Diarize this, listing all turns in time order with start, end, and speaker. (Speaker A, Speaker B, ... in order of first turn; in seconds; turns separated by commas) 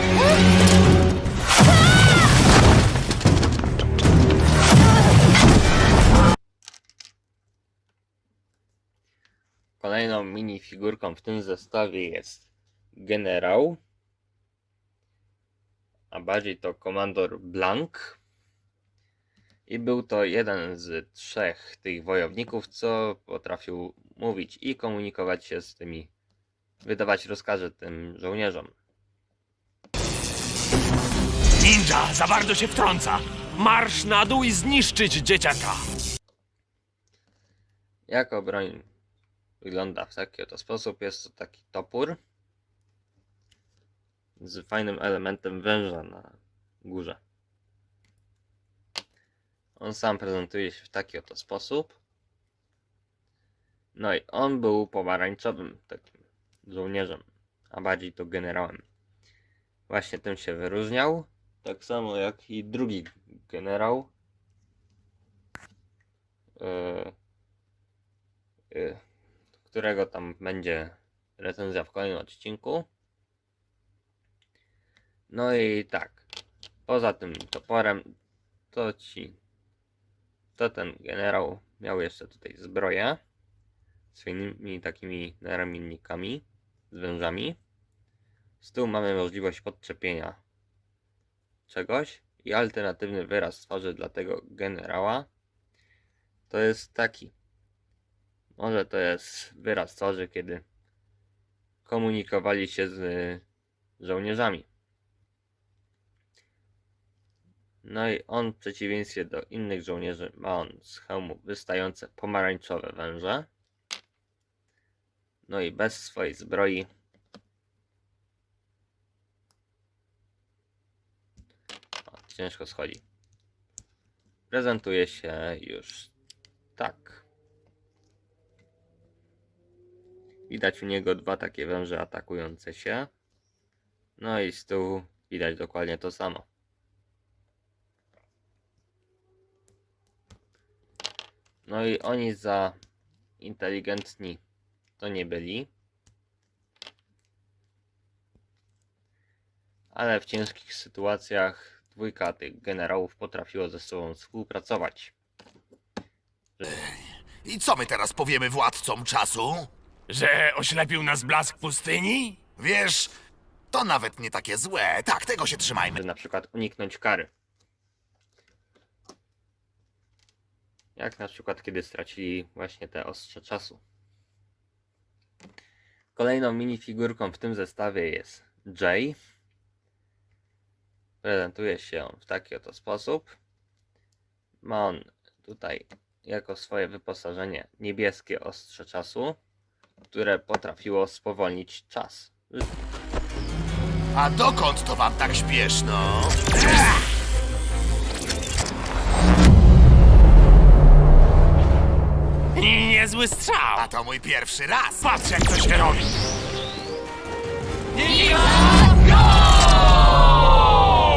Speaker A: 9.8-13.8, Speaker A: 16.1-18.2, Speaker A: 19.7-26.1, Speaker A: 26.8-28.7, Speaker B: 31.6-35.9, Speaker A: 38.1-38.9, Speaker A: 39.6-42.2, Speaker A: 44.4-47.2, Speaker A: 49.8-52.0, Speaker A: 53.9-58.8, Speaker A: 59.9-64.1, Speaker A: 66.6-67.1, Speaker A: 68.7-69.0, Speaker A: 69.6-72.9, Speaker A: 75.3-76.2, Speaker A: 76.9-78.1, Speaker A: 78.7-79.4, Speaker A: 80.5-83.2, Speaker A: 84.1-87.6, Speaker A: 88.6-90.4, Speaker A: 91.7-95.3, Speaker A: 96.5-97.3, Speaker A: 98.6-100.6, Speaker A: 101.8-103.4, Speaker A: 104.0-104.7, Speaker A: 107.8-113.5, Speaker A: 115.4-116.9, Speaker A: 122.1-123.0, Speaker A: 124.5-126.1, Speaker A: 126.8-127.2, Speaker A: 130.5-133.1, Speaker A: 134.2-136.5, Speaker A: 141.6-142.8, Speaker A: 143.4-144.4, Speaker A: 145.0-145.7, Speaker A: 149.9-155.1, Speaker C: 157.4-159.7, Speaker B: 160.1-162.4, Speaker C: 162.5-163.1, Speaker C: 163.7-165.9, Speaker A: 165.9-167.3, Speaker A: 170.9-173.8, Speaker A: 176.1-179.2, Speaker A: 181.2-183.3, Speaker A: 184.6-189.4, Speaker A: 190.1-192.6, Speaker C: 194.1-196.4, Speaker B: 202.5-203.9, Speaker C: 203.8-205.1, Speaker B: 205.1-206.1, Speaker B: 208.1-208.9